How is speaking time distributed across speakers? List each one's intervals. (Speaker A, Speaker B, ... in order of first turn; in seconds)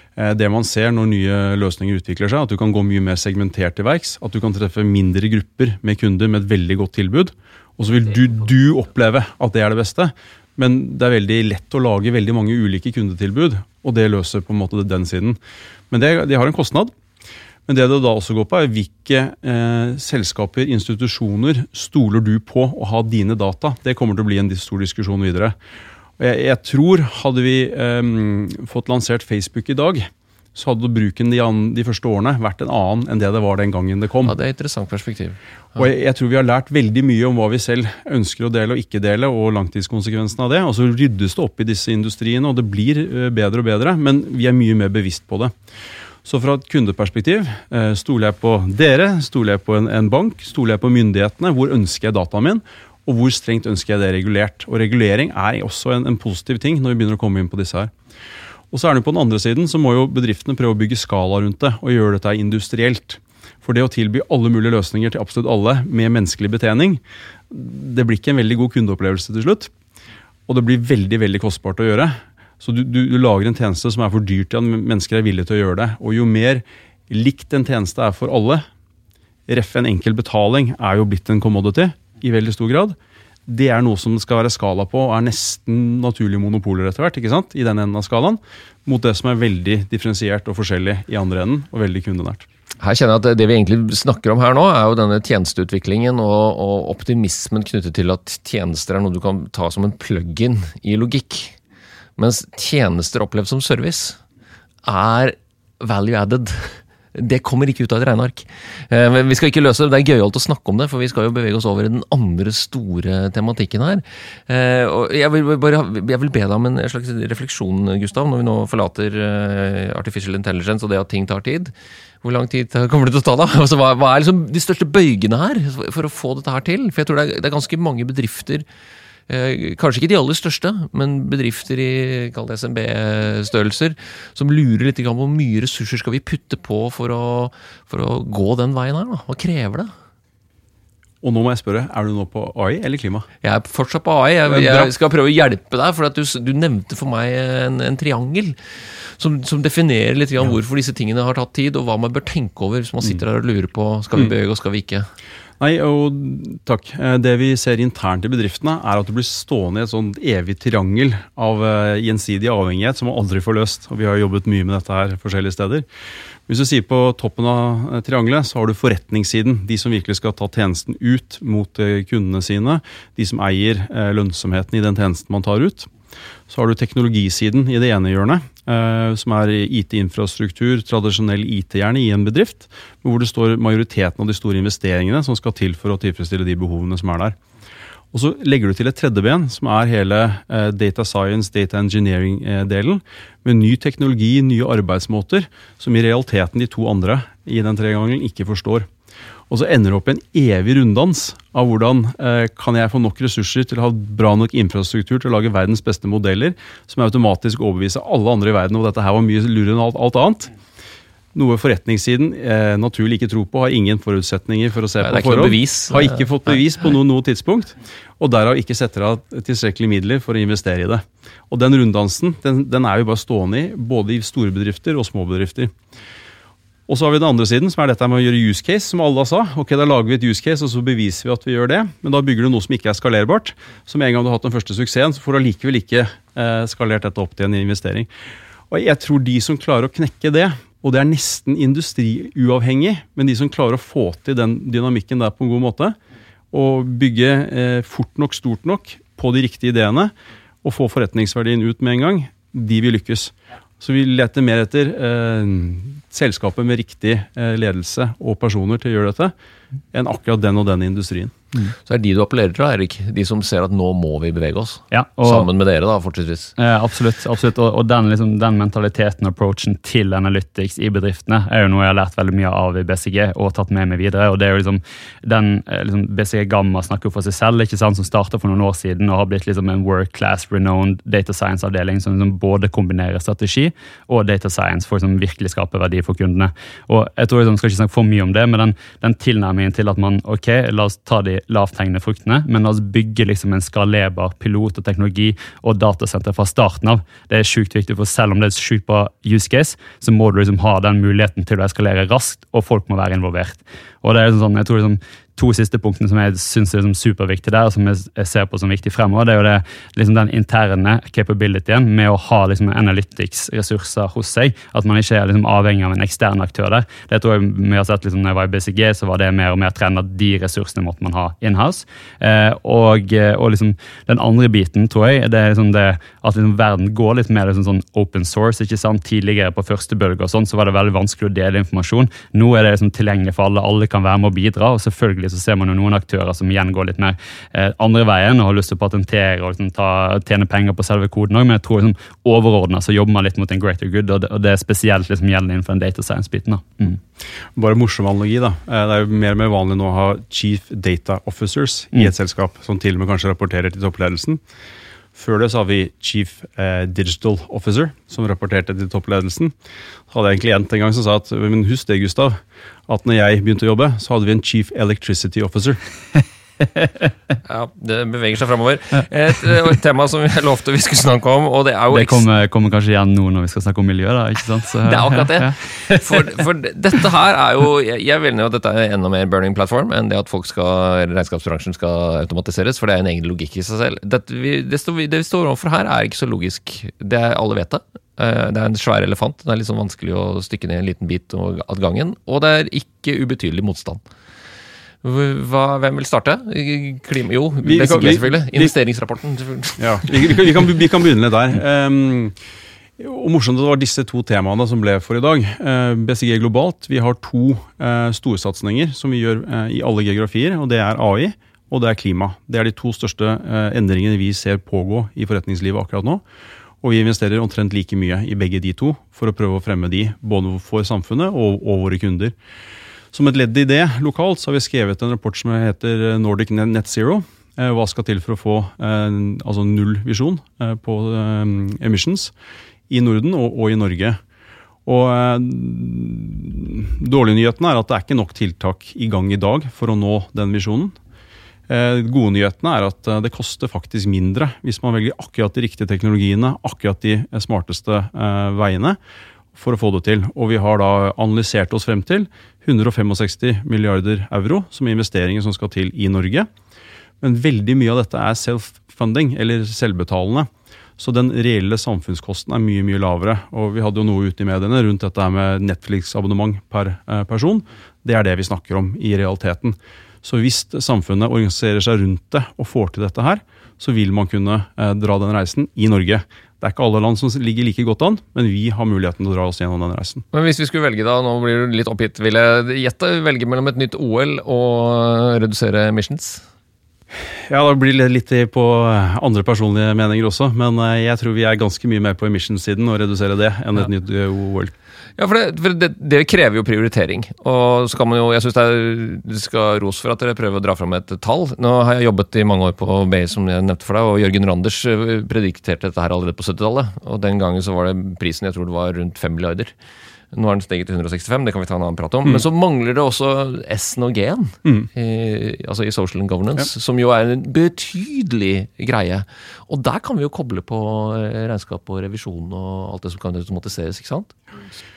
Speaker A: 0.1-15.4, 15.9-16.9, 17.6-25.5, 26.2-34.3, 35.8-45.5, 46.2-57.9, 58.7-69.7, 70.5-78.6, 79.5-92.5, 141.2-143.3, 144.5-144.9, 155.6-165.8, 166.5-175.9, 176.5-187.4, 188.1-198.9, 199.5-210.5, 211.3-225.7, 226.9-238.1, 238.7-245.9, 246.5-259.3, 259.9-261.4, 347.6-354.4, 355.1-359.5, 360.1-365.8, 397.6-398.7, 399.8-402.4, 403.0-416.2, 416.8-422.3, 423.1-432.3, 432.9-434.2, 434.9-440.9, 441.7-449.0, 449.5-456.5, 457.2-480.2, 487.5-494.7
Speaker B: 34.2-35.4, 92.8-101.5, 102.2-104.2, 104.8-128.7, 129.3-139.9, 143.4-148.6, 149.2-155.1, 215.0-216.5, 261.9-266.5, 367.4-372.2, 374.8-394.0, 395.0-400.1, 480.3-486.4, 495.2-509.7, 510.3-524.4
Speaker C: 264.9-265.5, 266.6-347.0, 371.9-376.3